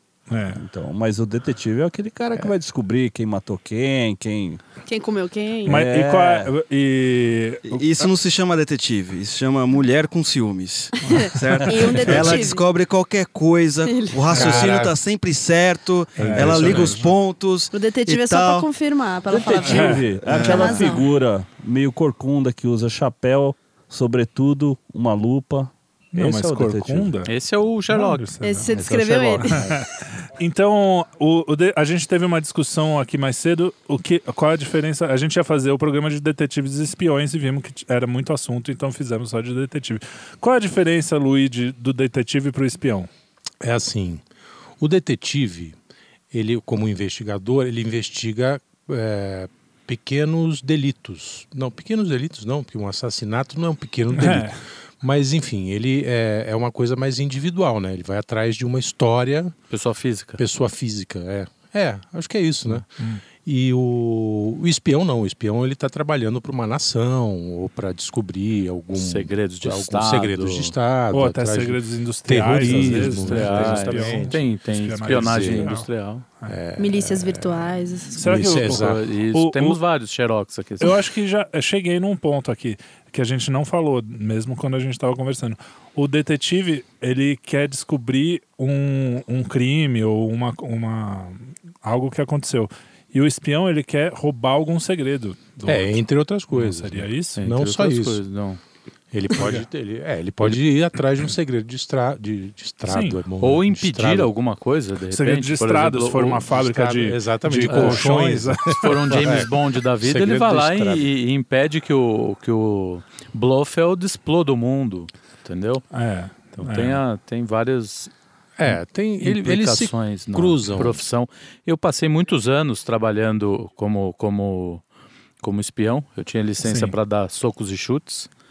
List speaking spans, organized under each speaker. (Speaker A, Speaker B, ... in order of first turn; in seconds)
Speaker A: 0.3-0.6, 5.7-8.1, 11.1-11.9, 16.2-17.1, 19.6-20.0, 26.1-27.3, 27.9-28.8, 29.4-43.1, 54.1-54.6, 62.7-63.2, 71.1-75.9, 78.1-79.8, 80.8-97.4, 99.4-99.6, 102.9-103.2, 105.1-109.2, 115.9-117.0, 126.6-127.0
Speaker B: 0.5-4.6, 5.7-6.5, 19.3-27.1, 28.7-29.4, 72.6-73.1
Speaker C: 4.9-5.8, 11.0-12.7, 13.8-14.3, 17.7-21.1, 28.4-29.8, 76.8-78.3
Speaker D: 7.7-18.7, 20.3-21.0
Speaker E: 14.3-15.0, 16.2-17.0, 43.6-44.2, 44.8-45.8, 46.3-59.5, 60.4-62.9, 63.4-74.5, 75.1-75.8, 76.5-77.6, 78.2-79.0, 95.7-98.2, 99.1-104.3, 106.5-111.1, 118.6-121.0
Speaker F: 27.3-29.0, 59.7-60.4, 68.9-70.8, 73.2-76.3, 78.3-81.1, 97.4-98.6, 103.4-106.5, 107.7-108.0, 108.7-115.9, 116.5-118.1, 119.2-124.8, 125.4-128.3